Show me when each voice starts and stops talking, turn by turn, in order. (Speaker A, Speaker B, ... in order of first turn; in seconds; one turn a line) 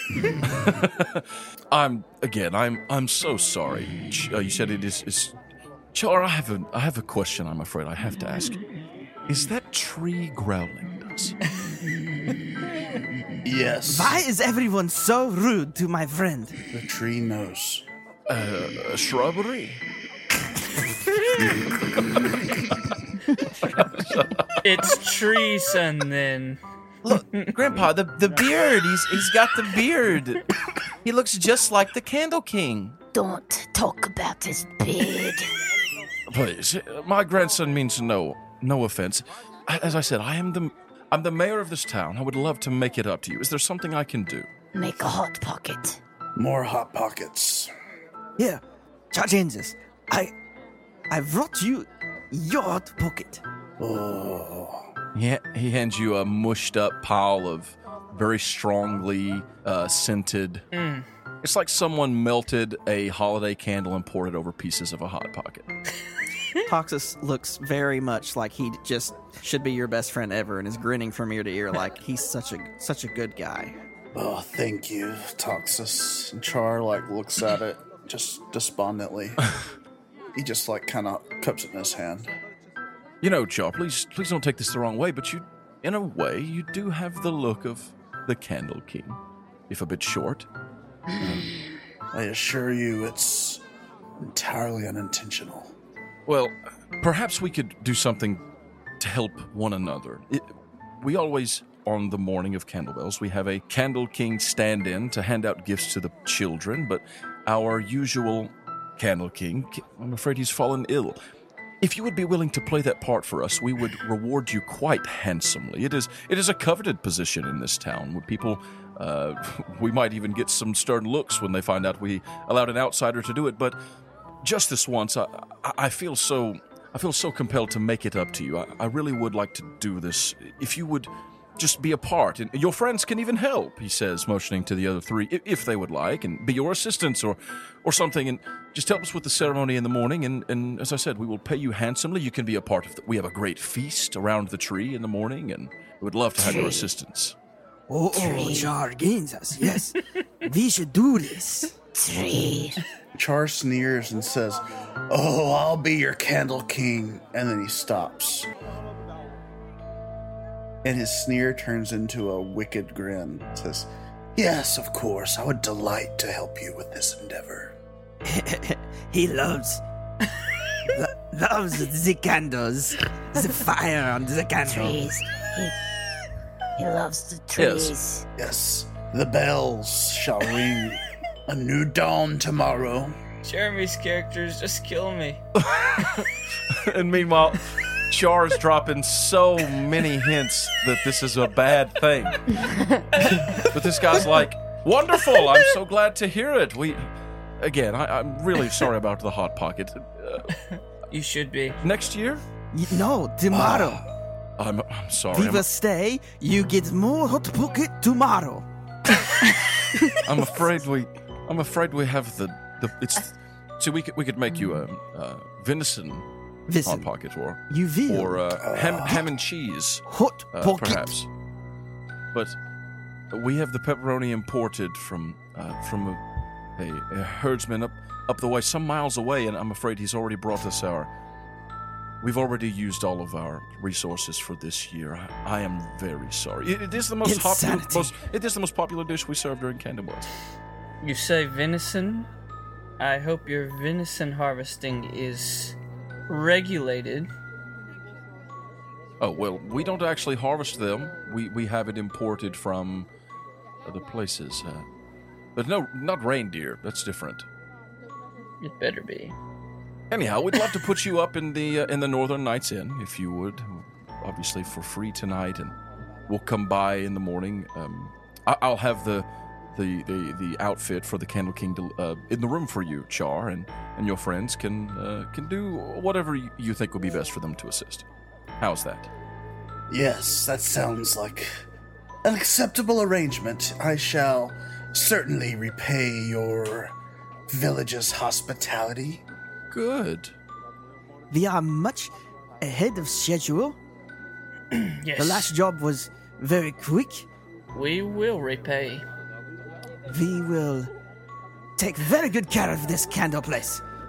Speaker A: 0.5-5.3
Speaker A: 5.9-8.6
Speaker A: 9.3-11.4
Speaker B: 13.4-14.2
Speaker C: 13.9-16.6
Speaker B: 16.7-17.9
Speaker A: 18.3-19.8
Speaker A: 23.5-24.6
Speaker D: 24.6-26.6
Speaker A: 27.0-30.5
Speaker D: 27.3-27.6
Speaker A: 31.0-33.0
Speaker E: 33.1-35.5
Speaker A: 36.3-44.5
Speaker E: 44.7-46.0
Speaker B: 46.4-47.7
Speaker C: 49.1-50.3
Speaker C: 51.1-53.4
Speaker B: 53.8-54.9
Speaker A: 55.1-60.6
Speaker D: 60.7-61.1
Speaker A: 61.4-65.7
Speaker C: 66.7-73.8
Speaker B: 74.1-79.4
Speaker B: 80.3-82.3
Speaker A: 83.2-90.5
Speaker A: 91.2-91.5
Speaker B: 92.1-93.6
Speaker B: 94.2-95.7
Speaker A: 96.3-98.5
Speaker A: 99.0-111.2
Speaker A: 111.8-123.8
Speaker A: 124.4-147.4
Speaker E: 146.4-146.9
Speaker C: 147.9-151.7
Speaker E: 148.1-148.7
Speaker E: 151.9-152.8
Speaker B: 153.2-158.5
Speaker B: 160.8-167.8
Speaker C: 168.2-169.8
Speaker C: 170.8-175.0
Speaker E: 174.7-175.8
Speaker E: 176.8-178.2
Speaker A: 177.6-178.0
Speaker B: 178.4-183.2
Speaker D: 183.4-185.4
Speaker A: 185.6-192.6
Speaker E: 192.7-193.0
Speaker D: 193.2-193.7
Speaker A: 193.2-197.1
Speaker A: 197.6-200.5
Speaker D: 200.6-201.8
Speaker A: 201.8-202.4
Speaker C: 202.7-204.0
Speaker B: 203.5-204.0
Speaker A: 204.6-205.7
Speaker C: 205.3-208.7
Speaker A: 210.2-216.3
Speaker C: 216.7-217.1
Speaker A: 216.8-221.3
Speaker C: 217.7-218.4
Speaker B: 218.6-219.2
Speaker C: 220.1-221.1
Speaker A: 223.3-226.2
Speaker A: 226.8-231.1
Speaker A: 232.2-240.3
Speaker C: 237.2-238.1
Speaker D: 241.0-242.3
Speaker D: 243.0-245.8
Speaker D: 246.3-247.3
Speaker A: 249.2-253.1
Speaker A: 253.8-254.8
Speaker A: 255.6-257.5
Speaker D: 258.6-259.4
Speaker A: 260.1-265.8
Speaker A: 266.3-278.1
Speaker A: 278.6-279.1
Speaker B: 279.9-281.6
Speaker B: 282.2-286.9
Speaker B: 287.5-289.2
Speaker A: 289.7-290.3
Speaker C: 291.3-293.8
Speaker D: 294.7-295.5
Speaker C: 295.2-297.3
Speaker D: 297.7-299.1
Speaker C: 300.1-300.9
Speaker C: 301.8-303.8